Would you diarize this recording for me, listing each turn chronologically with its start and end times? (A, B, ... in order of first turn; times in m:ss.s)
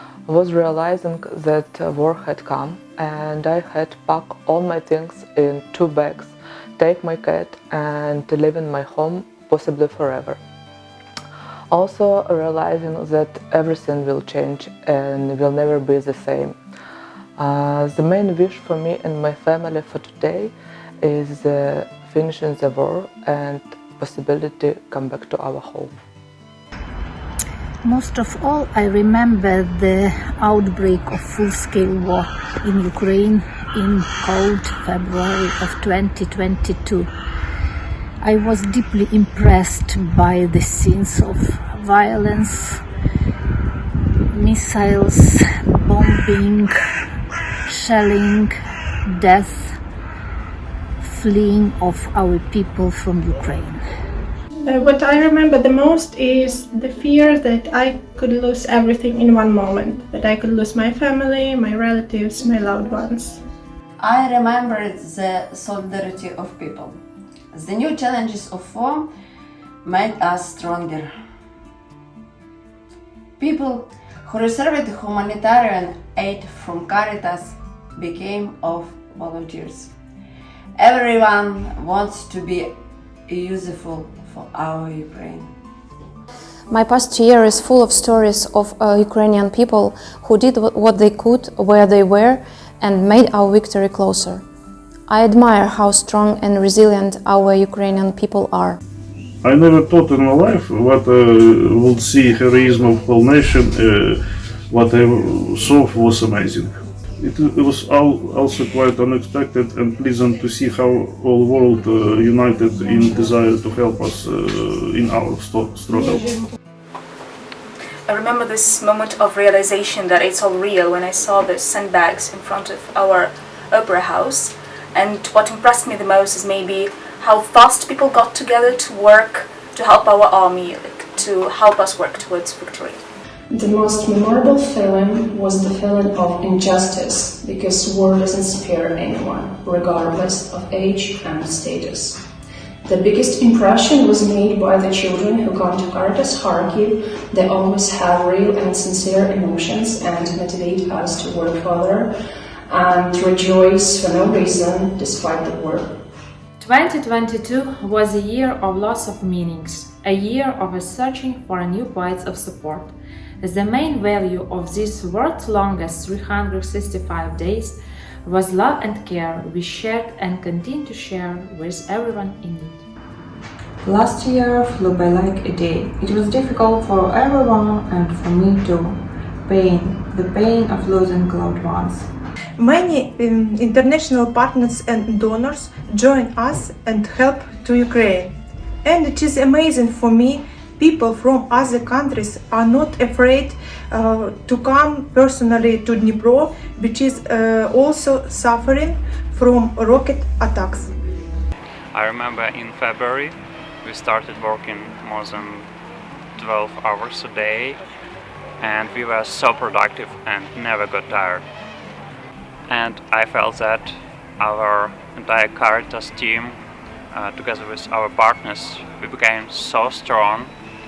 0:00.3-0:10.4 A
0:11.7-0:16.6 A
0:17.4-0:25.9 A
0:27.9-0:29.9 B
0:30.5-0:37.0 B
0:38.2-0:41.3 B
0:41.8-0:42.5 B
0:44.4-0:45.2 B
0:45.9-0:46.4 B
0:47.8-0:48.5 B
0:51.2-0:53.7 B
0:54.6-1:03.4 C
1:04.0-1:07.0 D
1:07.5-1:09.1 D
1:09.8-1:11.1 D
1:13.4-1:19.9 D
1:20.8-1:22.8 D
1:23.3-1:25.5 D
1:26.7-1:34.4 E
1:35.1-1:38.8 E
1:39.4-1:56.3 F
1:58.1-2:13.0 G
2:13.5-2:22.2 H
2:22.8-2:32.1 H
2:32.7-2:35.9 H
2:36.6-2:52.8 I
2:53.9-2:58.8 J
2:59.5-3:01.7 J
3:02.6-3:20.9 C
3:21.9-3:25.7 K
3:26.4-3:27.8 K
3:28.6-3:31.4 K
3:32.7-3:36.5 K
3:37.1-3:40.5 K